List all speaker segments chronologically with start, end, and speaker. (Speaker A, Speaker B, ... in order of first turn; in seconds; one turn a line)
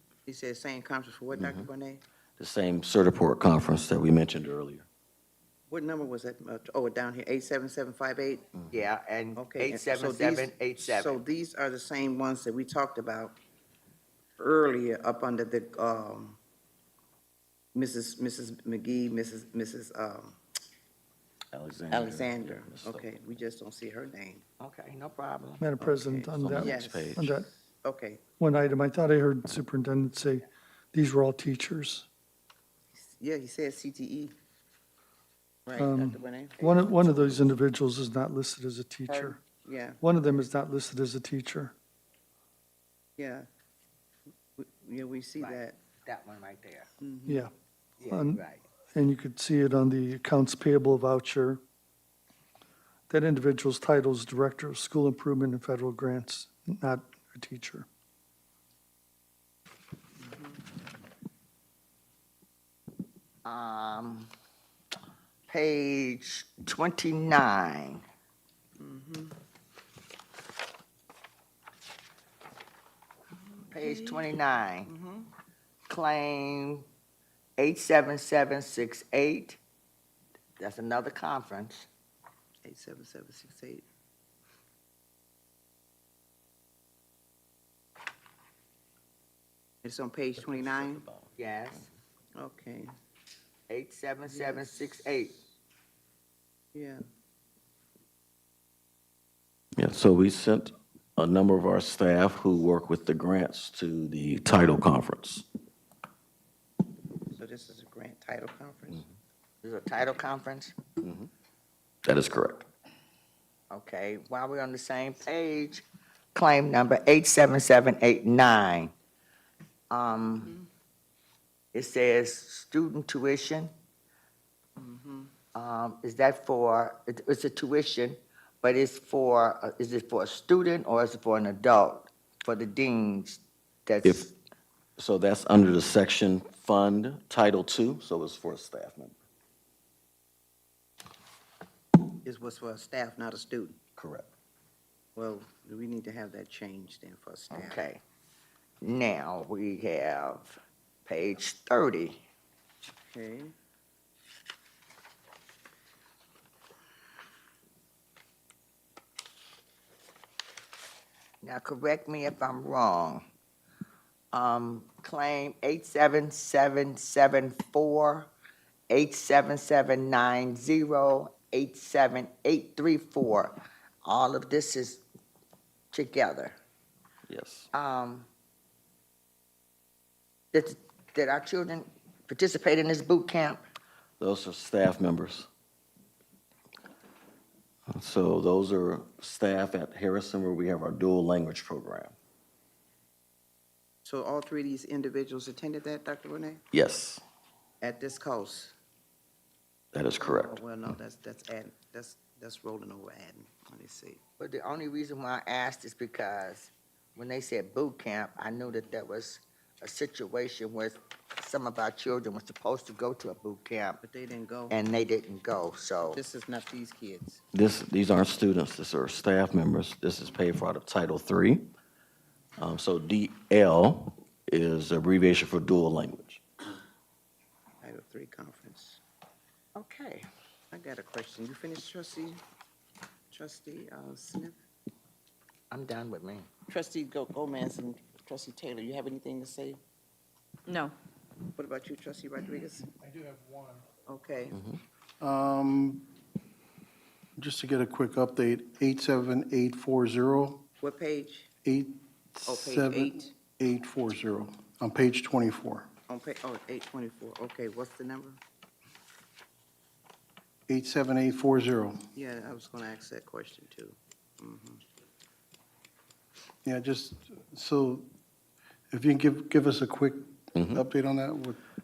Speaker A: 0.3-2.0
Speaker B: 1.4-1.6
Speaker B: 2.4-4.9
Speaker A: 5.7-8.5
Speaker C: 8.7-11.2
Speaker A: 9.4-13.4
Speaker A: 14.4-16.4
Speaker A: 17.7-20.4
Speaker B: 21.5-23.1
Speaker A: 21.9-24.4
Speaker C: 24.6-25.6
Speaker D: 25.6-27.5
Speaker A: 25.8-28.2
Speaker B: 26.4-27.3
Speaker D: 28.4-32.1
Speaker A: 33.0-34.3
Speaker A: 35.7-37.4
Speaker D: 35.8-39.4
Speaker A: 39.1-40.0
Speaker D: 40.0-41.7
Speaker A: 43.2-43.5
Speaker A: 44.6-45.8
Speaker C: 45.4-46.9
Speaker A: 47.0-47.5
Speaker D: 47.3-47.5
Speaker C: 48.0-48.6
Speaker D: 48.0-48.4
Speaker D: 49.0-51.6
Speaker D: 53.1-57.9
Speaker A: 60.2-60.6
Speaker C: 63.5-64.3
Speaker C: 65.5-68.0
Speaker A: 68.8-69.3
Speaker A: 73.7-74.3
Speaker C: 73.7-74.9
Speaker A: 74.8-75.3
Speaker C: 75.9-76.8
Speaker C: 77.6-79.6
Speaker C: 80.6-81.9
Speaker A: 82.6-83.8
Speaker A: 89.8-91.0
Speaker B: 90.4-91.3
Speaker C: 91.4-91.9
Speaker A: 92.4-92.9
Speaker C: 93.7-95.4
Speaker A: 94.3-94.7
Speaker A: 96.7-97.0
Speaker B: 99.8-105.5
Speaker A: 107.3-109.1
Speaker C: 109.6-110.8
Speaker B: 111.0-111.3
Speaker B: 112.0-112.7
Speaker C: 113.7-115.8
Speaker C: 116.3-118.9
Speaker C: 119.9-120.6
Speaker C: 121.7-123.7
Speaker A: 124.8-125.3
Speaker C: 125.5-134.3
Speaker B: 134.0-134.3
Speaker B: 135.0-139.2
Speaker A: 142.2-143.8
Speaker B: 144.0-144.3
Speaker A: 145.2-147.9
Speaker C: 147.5-148.0
Speaker C: 148.8-152.2
Speaker A: 153.1-153.5
Speaker C: 161.4-163.2
Speaker C: 164.3-168.3
Speaker C: 168.9-175.0
Speaker C: 175.9-176.6
Speaker B: 177.3-177.7
Speaker C: 177.7-178.3
Speaker C: 180.5-183.6
Speaker B: 184.2-185.5
Speaker B: 187.9-192.1
Speaker A: 194.1-196.6
Speaker B: 196.7-197.2
Speaker A: 197.8-198.7
Speaker B: 199.9-200.6
Speaker A: 200.2-204.2
Speaker C: 204.4-214.0
Speaker A: 214.0-214.8
Speaker C: 214.7-216.2
Speaker A: 216.0-217.4
Speaker B: 217.5-221.7
Speaker B: 222.6-226.4
Speaker A: 227.8-229.0
Speaker C: 229.8-230.3
Speaker A: 230.7-232.4
Speaker A: 233.3-234.6
Speaker C: 235.7-236.5
Speaker A: 236.7-239.8
Speaker A: 241.6-242.9
Speaker E: 243.0-243.9
Speaker A: 244.1-244.6
Speaker E: 245.2-246.1
Speaker E: 247.4-250.7
Speaker A: 250.8-251.5
Speaker E: 251.6-255.9
Speaker A: 252.5-253.3
Speaker A: 256.1-258.4
Speaker E: 260.7-262.1
Speaker A: 262.1-264.8
Speaker E: 266.6-268.1
Speaker E: 268.9-271.6
Speaker B: 270.5-270.8